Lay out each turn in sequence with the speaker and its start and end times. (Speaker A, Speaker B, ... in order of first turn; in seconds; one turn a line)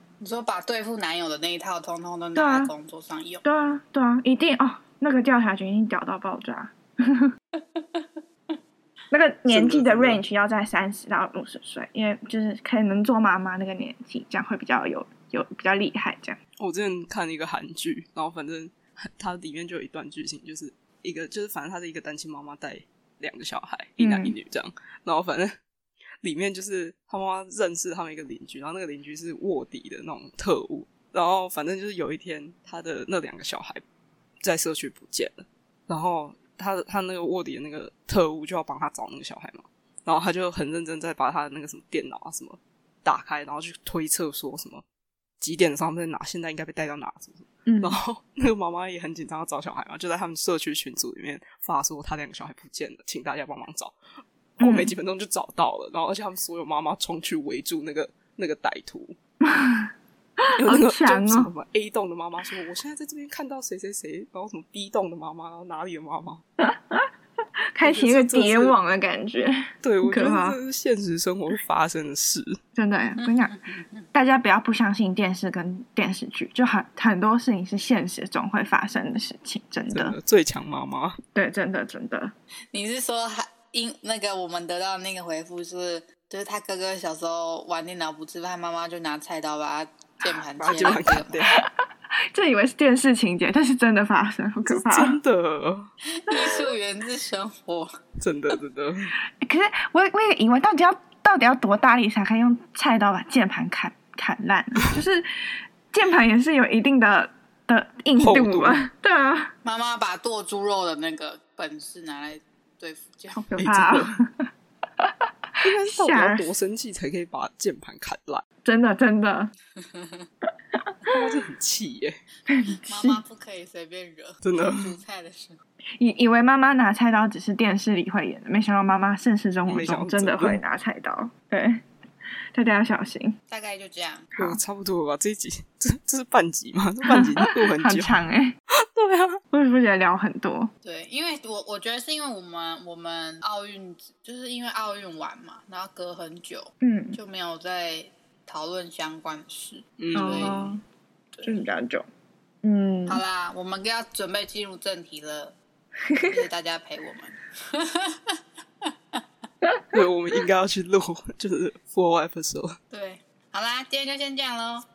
Speaker A: 0.2-3.5
Speaker B: 2.3-2.7
Speaker B: 3.4-7.3
Speaker A: 7.8-8.0
Speaker B: 9.1-16.4
Speaker C: 9.5-10.2
Speaker C: 16.6-25.5
Speaker B: 24.0-24.3
Speaker C: 26.2-33.8
Speaker C: 34.4-44.8
Speaker C: 45.4-53.9
Speaker B: 47.6-48.0
Speaker C: 54.6-59.1
Speaker B: 54.6-54.9
Speaker B: 59.4-61.5
Speaker C: 60.5-66.4
Speaker B: 66.6-67.1
Speaker B: 67.7-70.6
Speaker C: 67.8-68.7
Speaker C: 69.8-72.6
Speaker B: 72.8-73.5
Speaker A: 73.2-74.1
Speaker B: 74.1-80.2
Speaker C: 79.9-81.2
Speaker B: 81.3-82.3
Speaker A: 82.7-91.4
Speaker C: 90.6-91.6
Speaker B: 92.3-95.2
Speaker C: 94.7-95.9
Speaker A: 96.2-97.9
Speaker B: 96.3-96.6
Speaker C: 98.2-99.1
Speaker B: 99.4-105.3
Speaker B: 105.9-109.5
Speaker C: 108.2-108.8
Speaker A: 109.6-113.5
Speaker B: 113.3-114.5
Speaker C: 113.6-114.2
Speaker B: 115.0-116.5
Speaker C: 115.6-118.4
Speaker B: 118.6-119.5
Speaker A: 119.8-120.3
Speaker C: 121.1-122.2
Speaker B: 122.5-123.2
Speaker A: 122.9-125.6
Speaker C: 124.4-124.9
Speaker B: 126.0-131.8
Speaker C: 129.7-130.6
Speaker B: 132.5-133.3
Speaker A: 133.5-134.3
Speaker C: 134.3-138.2
Speaker B: 137.1-138.5
Speaker C: 138.9-139.4
Speaker B: 139.5-140.7
Speaker A: 140.8-150.7
Speaker B: 146.8-147.2
Speaker C: 150.0-150.6
Speaker B: 150.1-150.8
Speaker A: 151.3-151.7
Speaker B: 151.4-152.1
Speaker B: 152.6-153.2
Speaker A: 153.1-155.6
Speaker B: 156.1-156.3
Speaker A: 156.3-159.2
Speaker C: 159.9-162.8
Speaker A: 162.9-164.8